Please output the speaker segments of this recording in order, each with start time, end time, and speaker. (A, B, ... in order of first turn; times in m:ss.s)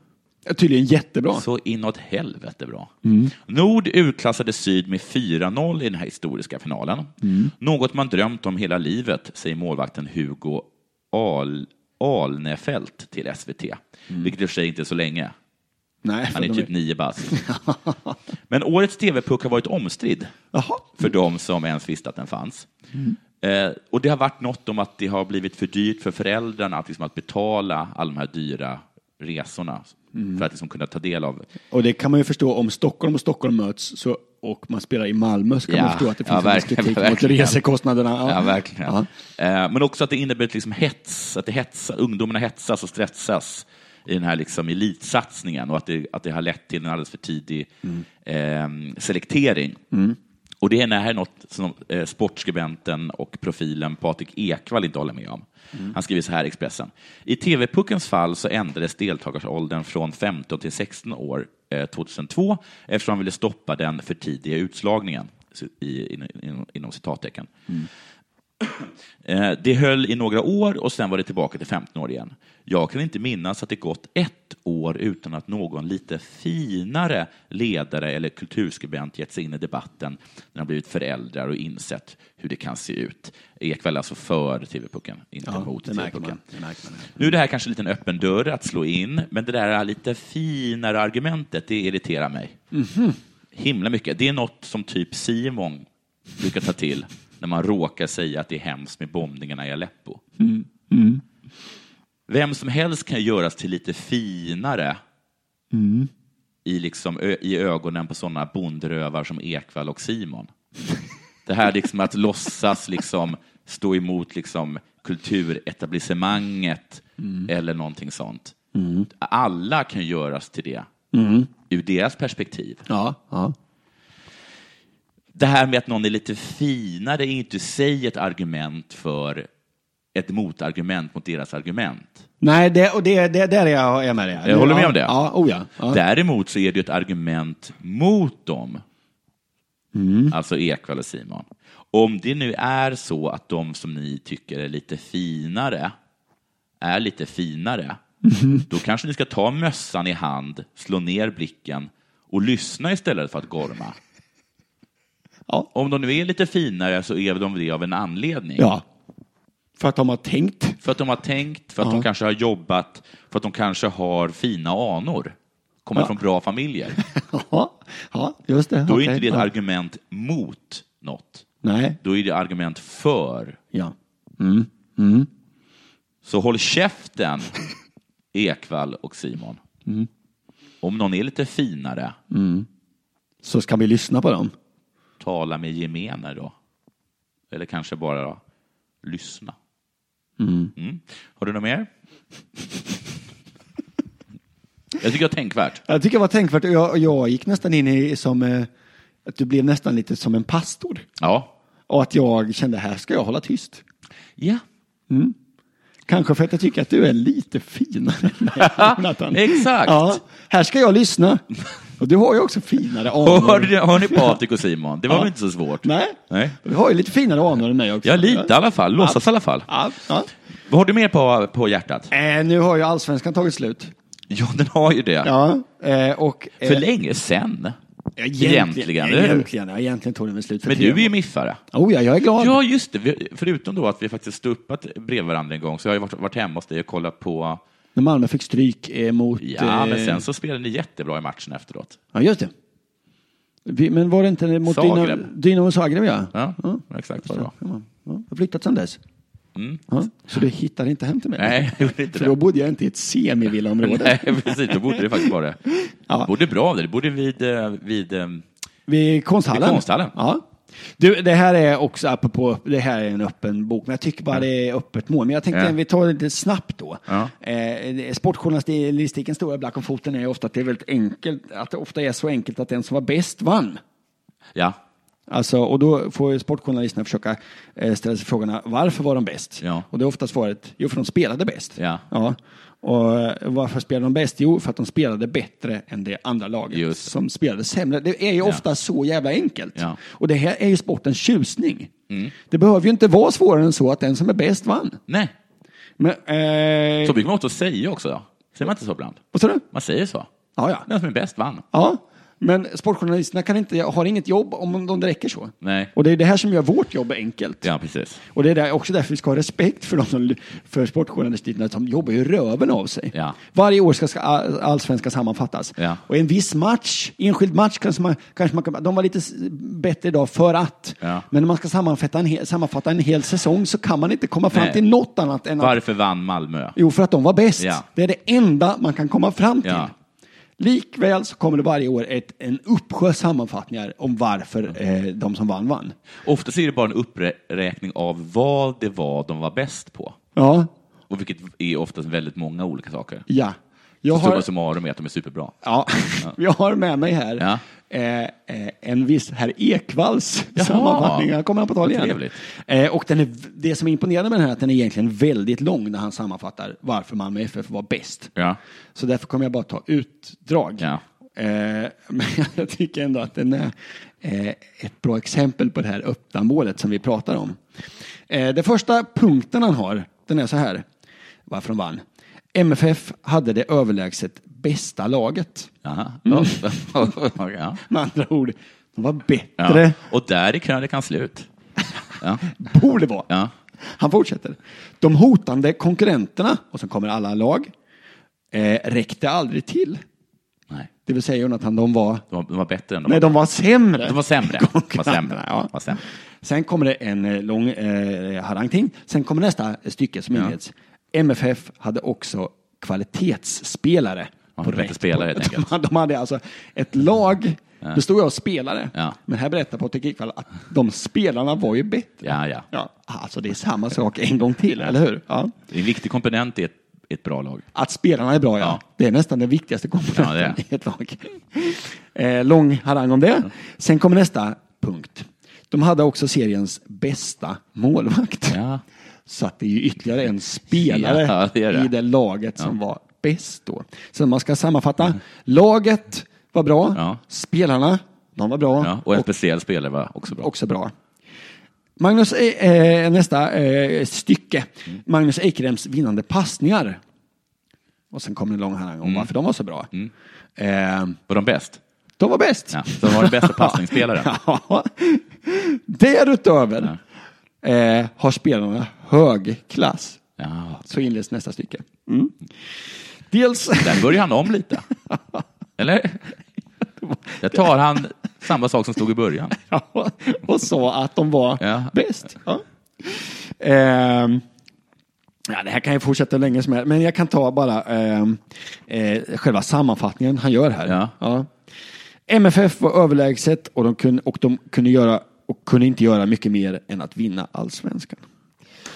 0:00.4-0:01.4 A
0:01.3-0:15.3 B
0:03.0-0:03.3 A
0:07.2-0:07.5 A
0:16.0-0:16.7 A
0:16.3-0:17.4 B
0:17.3-0:17.9 A
0:18.5-0:20.3 B
0:20.5-0:21.0 A
0:21.0-0:22.7 B
0:23.4-0:31.5 B
0:30.1-0:30.4 A
0:31.7-0:39.1 A
0:35.7-0:37.6 B
0:38.2-0:47.7 B
0:48.2-0:49.8 B
0:49.9-0:50.2 A
0:50.6-1:07.7 B
1:08.6-1:26.4 B
1:25.4-1:27.3 A
1:27.2-1:32.6 B
1:32.7-1:33.2 A
1:33.5-1:35.9 B
1:36.4-1:40.2 B
1:40.4-1:41.2 A
1:42.3-1:45.0 B
1:45.7-1:46.1 A
1:46.6-1:50.5 B
1:51.4-1:58.5 B
1:57.2-1:57.5 A
1:58.7-1:59.1 A
1:59.1-2:00.9 B
2:01.1-2:01.5 A
2:01.7-2:02.8 B
2:02.9-2:03.5 A
2:05.3-2:09.5 B
2:10.1-2:12.2 B
2:12.4-2:16.0 A
2:14.4-2:15.2 B
2:15.8-2:18.8 B
2:19.9-2:20.3 A
2:20.3-2:25.9 B
2:26.8-2:28.0 B
2:28.2-2:28.6 A
2:28.7-2:34.0 B
2:35.7-2:38.7 B
2:38.6-2:38.8 A
2:39.8-2:40.8 A
2:40.8-2:47.0 B
2:47.0-2:49.5 A
2:48.8-2:51.4 B
2:51.6-2:52.0 A
2:52.0-2:53.6 B
2:53.7-2:55.3 A
2:56.2-2:57.6 B
2:58.3-2:59.6 B
3:00.8-3:02.2 B
3:02.3-3:02.7 A
3:03.4-3:04.5 A
3:05.2-3:06.5 B
3:07.5-3:08.4 B
3:09.0-3:09.6 B
3:10.4-3:10.7 A
3:10.8-3:11.9 B
3:15.0-3:15.8 B
3:15.9-3:18.7 A
3:19.2-3:21.0 A
3:21.2-3:21.5 B
3:21.9-3:23.8 A
3:24.4-3:24.6 B
3:25.1-3:25.3 A
3:26.1-3:31.4 A
3:28.6-3:30.2 B
3:32.0-3:34.4 A
3:33.2-3:36.6 B
3:35.8-3:40.3 A
3:38.0-3:39.7 B
3:40.7-3:42.1 B
3:42.1-3:43.9 A
3:44.3-3:45.3 B
3:45.2-3:46.8 A
3:46.6-3:47.8 B
3:48.2-3:51.1 A
3:48.4-3:49.5 B
3:50.6-3:51.6 B
3:51.7-3:52.6 A
3:52.4-3:57.6 B
3:58.0-4:00.2 A
3:59.4-4:02.0 B
4:02.1-4:02.5 A
4:03.6-4:09.0 A
4:04.7-4:05.3 B
4:06.3-4:07.5 B
4:09.5-4:09.8 B
4:09.9-4:15.3 A
4:11.4-4:12.3 B
4:13.8-4:15.6 B
4:15.8-4:16.3 A
4:16.2-4:18.5 B
4:18.9-4:20.4 A
4:19.5-4:20.2 B
4:21.0-4:33.8 A
4:27.1-4:27.3 B
4:35.3-4:51.9 A
4:39.6-4:39.8 B
4:41.8-4:42.0 B
4:46.7-4:47.1 B
4:52.5-4:55.0 A
4:55.1-4:55.3 B
4:56.0-4:57.2 A
4:57.0-4:59.2 B
4:59.3-4:59.6 A
4:59.7-5:00.3 B
5:00.6-5:00.9 A
5:00.9-5:01.6 B
5:01.7-5:07.7 A
5:05.6-5:05.9 B
5:07.6-5:08.2 B
5:08.3-5:25.8 A
5:13.1-5:13.4 B
5:24.5-5:24.8 B
5:25.6-5:26.8 B
5:26.8-5:29.9 A
5:27.6-5:27.8 B
5:29.6-5:29.9 B
5:30.6-5:35.9 A
5:36.2-5:40.2 B
5:40.4-5:40.7 A
5:41.1-5:43.2 B
5:43.3-5:44.5 A
5:44.1-5:45.5 B
5:45.6-5:58.3 A
5:50.6-5:51.3 B
5:51.8-5:52.4 B
5:58.9-6:07.6 A
6:08.3-6:10.8 A
6:11.5-6:12.0 A
6:12.5-6:15.7 A
6:15.8-6:17.8 B
6:16.2-6:16.9 A
6:17.8-6:20.0 A
6:19.6-6:21.5 B
6:22.2-6:22.5 B
6:22.4-6:23.3 A
6:23.8-6:27.7 A
6:28.5-6:30.0 A
6:31.0-6:32.2 A
6:32.3-6:33.4 B
6:33.0-6:35.7 A
6:34.0-6:36.0 B
6:36.4-6:55.5 A
6:44.6-6:45.7 B
6:52.2-6:52.6 B
6:55.7-6:57.7 B
6:57.7-7:08.6 A
7:00.1-7:00.6 B
7:08.5-7:08.8 B
7:09.3-7:19.3 A
7:10.7-7:11.9 B
7:16.9-7:17.2 B
7:18.8-7:20.5 B
7:20.4-7:20.9 A
7:22.0-7:27.0 A
7:28.1-7:29.9 A
7:29.0-7:29.3 B
7:30.6-7:31.2 A
7:31.3-7:31.8 B
7:32.2-7:37.0 A
7:32.7-7:34.3 B
7:37.6-7:40.2 A
7:40.4-7:40.8 B
7:40.8-7:42.3 A
7:43.3-7:44.2 A
7:43.8-7:44.9 B
7:45.1-7:45.4 A
7:45.8-7:46.3 B
7:47.0-7:47.7 A
7:47.4-7:49.6 B
7:49.6-7:54.4 A
7:51.6-7:51.9 B
7:55.5-8:01.5 A
8:00.8-8:01.1 B
8:02.3-8:08.2 A